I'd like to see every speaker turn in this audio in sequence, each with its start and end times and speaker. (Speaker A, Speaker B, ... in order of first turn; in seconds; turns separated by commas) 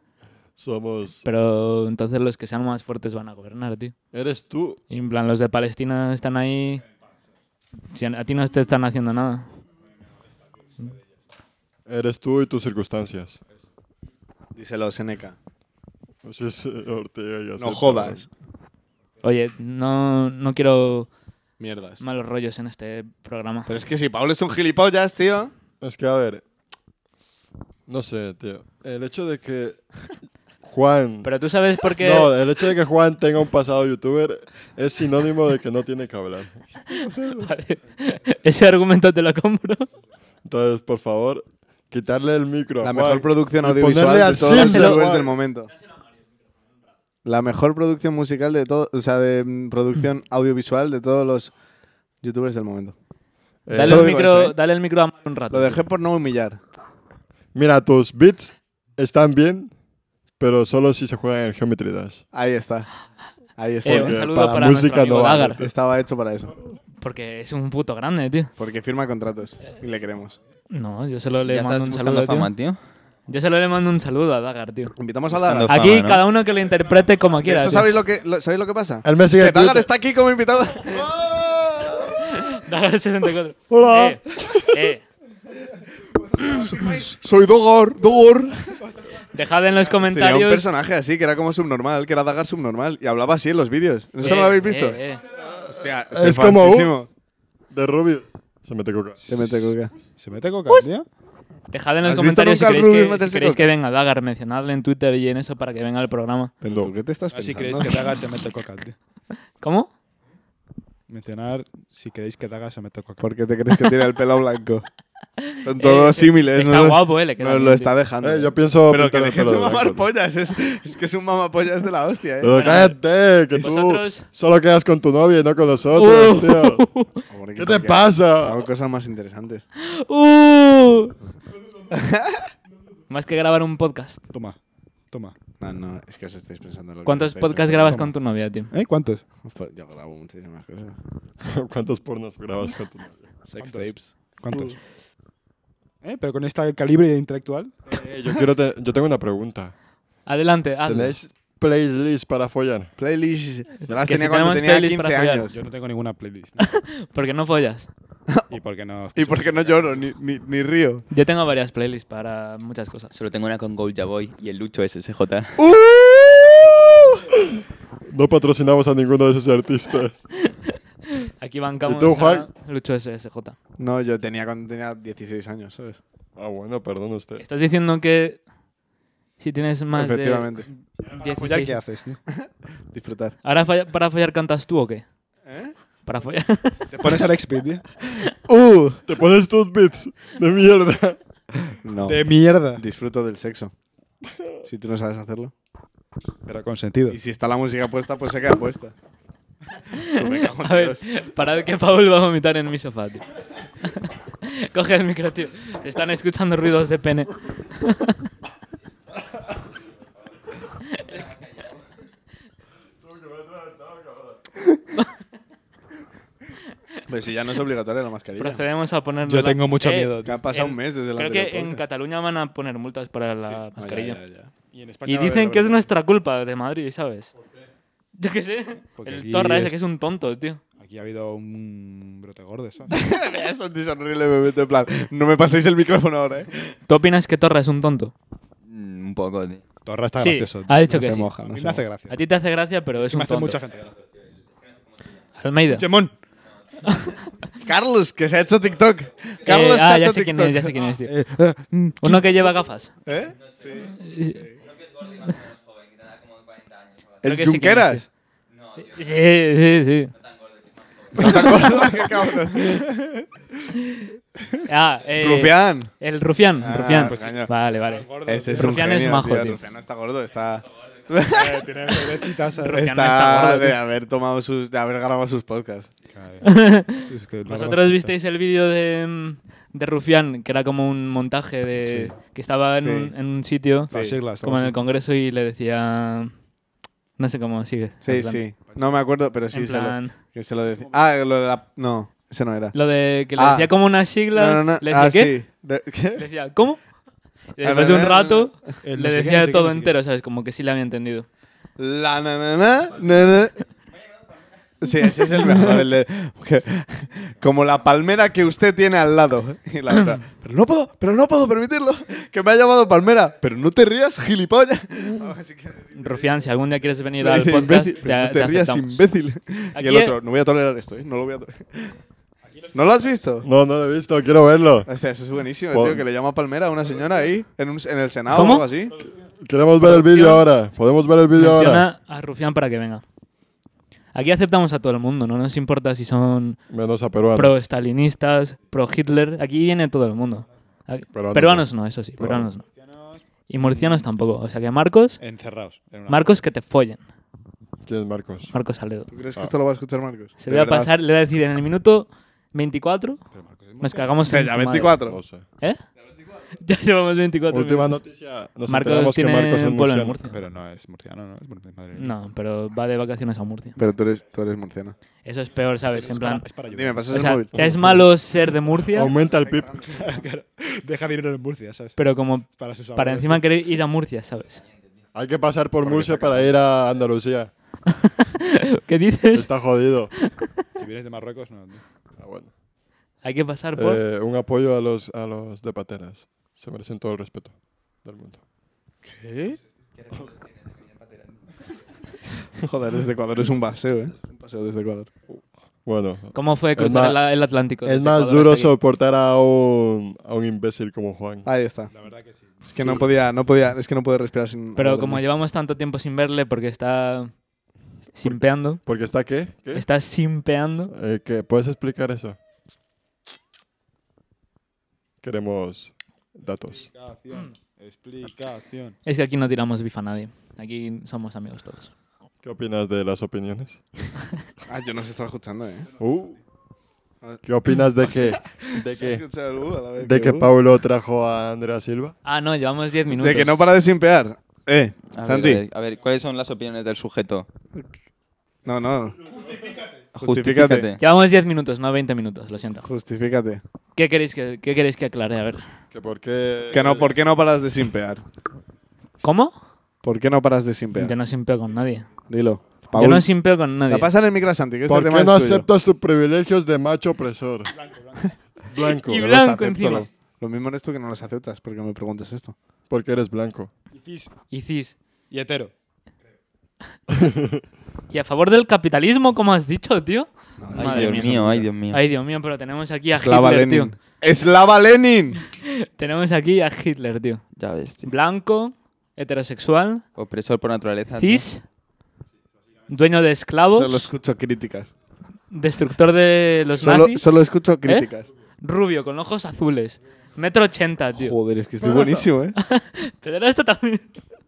Speaker A: 0.6-1.2, Speaker B: 1.2-3.9, Speaker A: 4.1-4.8, Speaker B: 4.9-6.8, Speaker B: 7.9-9.5, Speaker C: 10.8-11.0, Speaker A: 11.8-13.4, Speaker D: 14.5-15.4, Speaker A: 16.2-18.2, Speaker D: 17.6-18.3, Speaker B: 19.2-21.1, Speaker D: 21.6-22.0, Speaker B: 22.0-23.7, Speaker D: 23.7-25.5, Speaker A: 25.8-26.4, Speaker A: 27.9-29.8, Speaker A: 30.6-31.3, Speaker B: 31.2-32.3, Speaker A: 32.0-36.6, Speaker D: 36.9-37.5, Speaker B: 37.4-39.9, Speaker A: 40.4-45.3, Speaker D: 42.8-45.7, Speaker B: 44.5-45.0, Speaker D: 47.2-51.5, Speaker D: 52.2-53.0, Speaker A: 53.7-54.1, Speaker B: 53.7-55.8, Speaker D: 53.8-54.6, Speaker D: 55.5-56.6, Speaker A: 57.5-59.7, Speaker A: 60.4-62.2, Speaker D: 62.3-62.9, Speaker D: 63.6-64.2, Speaker B: 63.8-65.6, Speaker A: 63.8-65.7, Speaker D: 65.6-66.5, Speaker B: 67.0-68.5, Speaker D: 68.6-70.4, Speaker B: 70.7-72.5, Speaker E: 71.5-72.8, Speaker B: 73.3-74.9, Speaker D: 75.0-75.9, Speaker E: 75.3-76.2, Speaker B: 75.7-77.9, Speaker D: 77.5-81.1, Speaker A: 79.0-79.9, Speaker A: 81.0-82.2, Speaker B: 82.2-85.0, Speaker A: 83.7-84.8, Speaker D: 86.4-88.7, Speaker B: 89.3-90.7, Speaker D: 90.1-95.0, Speaker B: 94.2-95.2, Speaker A: 95.3-97.0, Speaker D: 95.7-97.1, Speaker A: 97.7-99.2, Speaker D: 99.3-99.9, Speaker C: 100.0-101.1, Speaker B: 101.7-106.5, Speaker D: 102.0-103.7, Speaker D: 106.6-108.0, Speaker A: 106.6-106.9, Speaker C: 107.3-109.0, Speaker B: 109.6-109.9, Speaker C: 111.1-113.2, Speaker D: 113.2-114.9, Speaker D: 115.6-122.8, Speaker B: 115.8-117.9, Speaker A: 118.2-120.1, Speaker A: 122.4-126.9, Speaker B: 122.5-123.0, Speaker B: 123.5-124.2, Speaker B: 126.0-127.2, Speaker D: 127.3-129.7, Speaker A: 127.5-128.7, Speaker B: 129.8-131.2, Speaker D: 131.9-132.5, Speaker B: 133.1-134.2, Speaker C: 134.3-135.3, Speaker D: 135.6-138.0, Speaker B: 137.1-138.7, Speaker C: 137.9-138.2, Speaker C: 138.7-139.2, Speaker D: 139.4-141.0, Speaker A: 141.4-143.3, Speaker D: 143.4-144.8, Speaker C: 143.6-144.7, Speaker C: 146.0-147.7, Speaker A: 147.9-149.7, Speaker B: 150.2-151.2, Speaker A: 150.8-152.9, Speaker D: 153.0-155.6, Speaker B: 153.8-155.5, Speaker C: 155.5-156.8, Speaker B: 156.6-157.9, Speaker C: 158.5-160.0, Speaker D: 159.2-161.1, Speaker B: 161.1-163.1, Speaker E: 163.1-165.6, Speaker D: 165.6-167.2, Speaker A: 168.1-170.2, Speaker B: 170.5-173.5, Speaker A: 171.8-172.5, Speaker D: 173.8-176.0, Speaker A: 176.3-177.4, Speaker B: 177.4-178.4, Speaker B: 179.4-181.8, Speaker D: 179.9-180.7, Speaker C: 181.1-182.2, Speaker D: 182.3-183.4, Speaker B: 183.4-185.1, Speaker D: 185.4-185.7, Speaker B: 186.0-187.3, Speaker C: 186.9-187.8, Speaker D: 188.3-189.0, Speaker A: 189.1-191.2, Speaker D: 191.8-193.7, Speaker C: 192.0-192.8, Speaker A: 194.2-194.6, Speaker D: 194.7-195.5, Speaker C: 196.5-197.2, Speaker D: 197.1-198.9, Speaker D: 200.1-201.0, Speaker B: 200.2-203.2, Speaker B: 204.0-208.2, Speaker B: 211.0-211.2, Speaker A: 213.0-214.4, Speaker D: 217.1-218.6, Speaker B: 218.4-224.2, Speaker C: 219.2-220.4, Speaker D: 220.2-221.8, Speaker D: 223.4-224.5, Speaker C: 224.7-225.8, Speaker B: 225.1-227.3, Speaker B: 228.2-230.6, Speaker C: 229.0-229.8, Speaker C: 230.8-233.0, Speaker D: 232.9-236.7, Speaker B: 236.9-238.1, Speaker E: 238.7-239.6, Speaker C: 239.8-240.9, Speaker B: 240.2-241.3, Speaker D: 240.9-241.8, Speaker C: 241.5-242.2, Speaker B: 242.1-243.6, Speaker C: 243.0-243.9, Speaker E: 244.6-245.2, Speaker B: 245.4-245.9, Speaker C: 245.7-246.1, Speaker B: 246.8-247.2, Speaker D: 247.6-250.7, Speaker B: 249.4-251.1, Speaker C: 251.1-251.7, Speaker D: 251.6-252.2, Speaker B: 252.0-252.9, Speaker D: 253.0-253.9, Speaker B: 253.8-254.4, Speaker E: 254.6-257.2, Speaker D: 257.2-258.1, Speaker B: 257.2-258.1, Speaker E: 258.5-259.0, Speaker B: 258.9-260.1, Speaker E: 260.1-261.9, Speaker D: 261.1-263.3, Speaker B: 261.2-261.8, Speaker B: 263.8-264.1, Speaker B: 264.6-269.6, Speaker D: 265.2-265.9, Speaker D: 266.6-267.5, Speaker C: 266.7-269.0, Speaker D: 268.2-275.9, Speaker C: 271.2-272.8, Speaker B: 272.6-273.8, Speaker C: 276.1-278.1, Speaker B: 276.4-286.4, Speaker C: 281.9-282.1, Speaker D: 282.8-283.1, Speaker C: 283.9-284.8, Speaker D: 283.9-284.2, Speaker B: 287.2-288.5, Speaker D: 288.0-296.2, Speaker B: 289.5-290.1, Speaker B: 292.7-295.4, Speaker B: 296.1-297.0, Speaker B: 297.5-301.2, Speaker D: 297.6-298.8, Speaker C: 298.8-300.0, Speaker D: 301.8-303.6, Speaker D: 304.8-316.0, Speaker B: 315.9-319.0, Speaker D: 317.2-322.0, Speaker B: 319.8-320.1, Speaker D: 322.7-323.5, Speaker A: 323.4-324.9, Speaker D: 324.9-328.9, Speaker A: 325.7-326.0, Speaker B: 328.3-328.7, Speaker A: 329.4-331.9, Speaker B: 329.9-330.4, Speaker B: 331.4-333.0, Speaker B: 334.1-336.6, Speaker A: 336.7-337.6, Speaker B: 337.3-342.6, Speaker A: 341.1-342.5, Speaker C: 342.6-344.1, Speaker B: 343.5-345.2, Speaker C: 345.2-346.4, Speaker B: 346.1-347.0, Speaker A: 347.8-348.5, Speaker B: 348.5-349.1, Speaker D: 349.1-350.9, Speaker B: 350.4-353.2, Speaker C: 353.3-354.2, Speaker B: 353.8-355.8, Speaker D: 354.3-355.2, Speaker A: 355.1-355.5, Speaker B: 356.5-358.0, Speaker A: 357.5-360.2, Speaker B: 358.7-360.4, Speaker C: 360.3-362.1, Speaker B: 361.9-363.8, Speaker D: 363.8-364.9, Speaker B: 365.2-366.5, Speaker C: 365.9-367.1, Speaker D: 366.7-367.9, Speaker B: 367.1-369.1, Speaker A: 367.5-368.1, Speaker A: 368.9-369.7, Speaker D: 369.4-370.2, Speaker C: 369.9-373.5, Speaker B: 372.0-374.6, Speaker A: 375.1-377.5, Speaker C: 375.8-376.6, Speaker B: 378.0-379.5, Speaker A: 379.3-380.1, Speaker B: 380.2-380.4, Speaker C: 380.8-381.8, Speaker A: 382.2-382.5, Speaker B: 383.2-384.0, Speaker A: 383.8-388.4, Speaker D: 389.1-389.6, Speaker E: 390.1-390.4, Speaker D: 392.6-395.1, Speaker A: 395.3-401.5, Speaker B: 396.3-398.7, Speaker D: 401.4-401.9, Speaker C: 401.9-402.6, Speaker D: 402.6-405.2, Speaker B: 404.8-407.4, Speaker B: 408.1-408.8, Speaker A: 408.2-409.9, Speaker B: 409.7-410.9, Speaker A: 410.9-412.4, Speaker A: 415.2-416.9, Speaker C: 416.7-419.0, Speaker B: 419.1-421.9, Speaker A: 422.4-423.8, Speaker D: 424.7-425.9, Speaker A: 426.0-426.4, Speaker A: 427.4-429.2, Speaker D: 428.1-430.5, Speaker A: 430.0-432.1, Speaker B: 432.2-433.5, Speaker D: 433.2-435.6, Speaker E: 435.1-437.5, Speaker D: 438.6-439.3, Speaker C: 439.5-439.9, Speaker D: 440.1-440.9, Speaker E: 440.2-441.0, Speaker B: 441.0-442.9, Speaker D: 442.8-443.6, Speaker B: 443.9-445.6, Speaker A: 445.9-447.1, Speaker D: 446.7-448.2, Speaker B: 449.2-449.6, Speaker D: 450.0-451.1, Speaker B: 450.9-452.1, Speaker D: 452.3-455.6, Speaker B: 452.9-454.1, Speaker A: 454.9-457.7, Speaker C: 457.7-458.3, Speaker A: 458.7-459.3, Speaker B: 459.0-460.1, Speaker D: 459.1-462.6, Speaker A: 462.9-463.7, Speaker C: 463.9-464.3, Speaker B: 464.5-465.0, Speaker C: 465.3-465.7, Speaker A: 467.1-467.6, Speaker B: 468.1-471.4, Speaker D: 470.6-471.7, Speaker E: 470.7-472.0, Speaker B: 471.9-473.9, Speaker D: 473.1-475.4, Speaker B: 475.6-477.4, Speaker E: 477.6-478.1, Speaker B: 478.0-480.0, Speaker E: 480.2-481.4, Speaker B: 481.2-481.6, Speaker B: 482.9-484.1, Speaker D: 483.7-484.9, Speaker B: 485.5-488.1, Speaker D: 486.8-488.3, Speaker B: 488.6-494.1, Speaker D: 491.1-492.6, Speaker A: 491.9-492.2